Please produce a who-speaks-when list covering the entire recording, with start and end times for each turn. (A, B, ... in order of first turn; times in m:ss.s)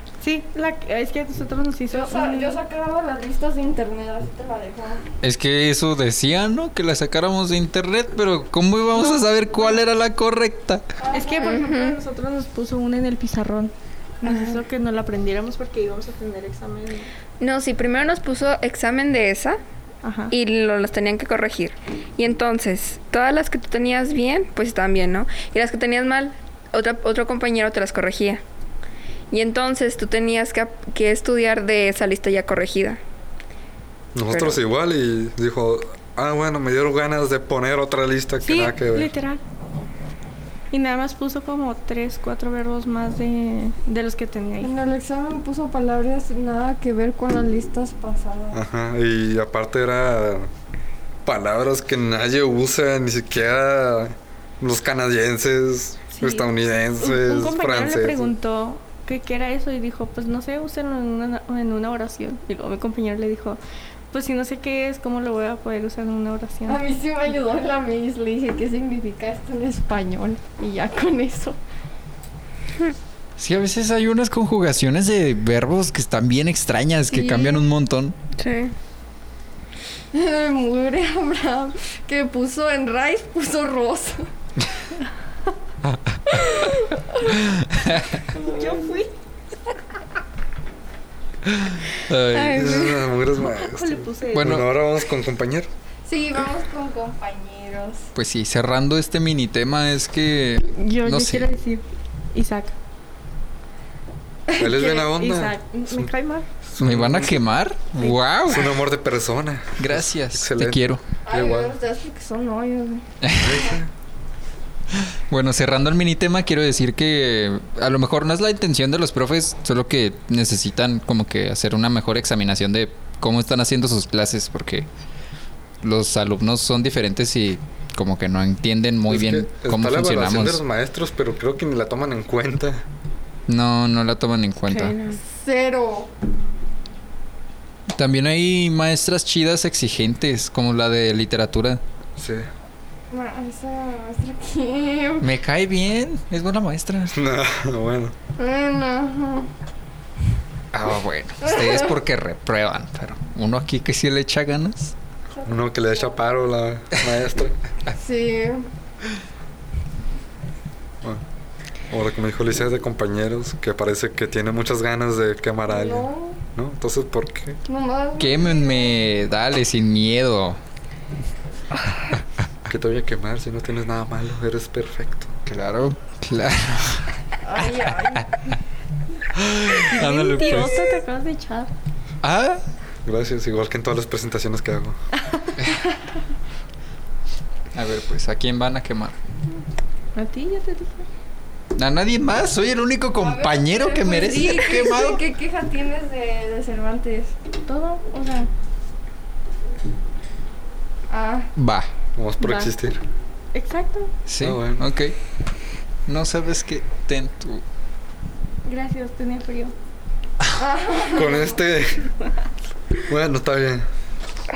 0:00.2-0:02.6 A
0:01.9-0:05.0 B
0:05.2-0:11.0 C
0:11.0-0:11.7 B
0:11.1-0:17.1 A
0:11.4-0:12.0 D
0:14.3-0:14.6 B
0:17.4-0:19.6 D
0:20.0-0:20.4 A
0:20.3-0:28.4 D
0:29.3-0:33.0 D
0:34.1-0:39.1 E
0:34.3-0:34.6 D
0:38.4-0:39.4 A
0:40.7-0:44.7 A
0:44.6-0:48.6 B
0:48.5-0:50.5 E
0:51.2-0:58.4 E
0:56.1-0:56.5 A
0:57.0-1:03.6 A
1:04.1-1:06.8 A
1:06.6-1:11.6 B
1:13.4-1:18.1 C
1:17.1-1:17.6 B
1:18.4-1:18.7 D
1:20.1-1:24.3 B
1:25.9-1:26.2 C
1:27.3-1:28.2 C
1:28.3-1:29.1 A
1:31.5-1:32.9 C
1:32.3-1:32.9 D
1:32.4-1:35.7 E
1:33.5-1:34.6 A
1:34.3-1:34.6 C
1:36.1-1:38.1 B
1:38.1-1:41.5 C
1:40.7-1:41.8 A
1:42.3-1:42.7 A
1:44.6-1:46.1 E
1:44.6-1:46.5 A
1:46.7-1:47.4 E
1:46.8-1:48.7 C
1:48.5-1:51.7 E
1:49.8-1:51.0 C
1:51.3-1:53.0 B
1:53.2-1:53.6 C
1:53.4-1:53.9 E
1:55.3-2:04.9 C
2:05.8-2:10.6 C
2:09.1-2:12.8 E
2:13.5-2:15.0 C
2:14.7-2:15.2 D
2:15.2-2:16.1 B
2:18.0-2:21.8 C
2:22.2-2:22.5 E
2:23.1-2:25.3 B
2:25.2-2:27.2 C
2:27.1-2:28.1 E
2:28.4-2:29.5 B
2:30.7-2:34.9 C
2:31.4-2:31.9 B
2:35.4-2:36.0 B
2:35.4-2:37.6 E
2:38.0-2:38.6 B
2:41.9-2:47.6 E
2:45.7-2:46.4 B
2:47.7-2:49.0 B
2:48.2-2:50.6 C
2:52.7-2:55.4 E
2:55.5-2:57.1 C
2:57.4-2:58.3 B
2:59.4-3:00.9 C
2:59.8-3:01.7 A
3:02.2-3:02.6 C
3:03.0-3:05.0 E
3:05.1-3:05.7 A
3:07.7-3:09.1 C
3:10.1-3:11.1 A
3:11.8-3:15.2 C
3:13.2-3:17.3 B
3:17.6-3:18.5 A
3:21.1-3:21.5 B
3:21.6-3:21.9 C
3:22.2-3:23.0 E
3:22.4-3:22.7 A
3:23.5-3:24.1 A
3:24.3-3:25.1 C
3:24.4-3:24.9 E
3:26.1-3:27.6 C
3:28.6-3:29.7 A
3:30.6-3:31.6 B
3:31.1-3:32.1 E
3:33.1-3:33.9 E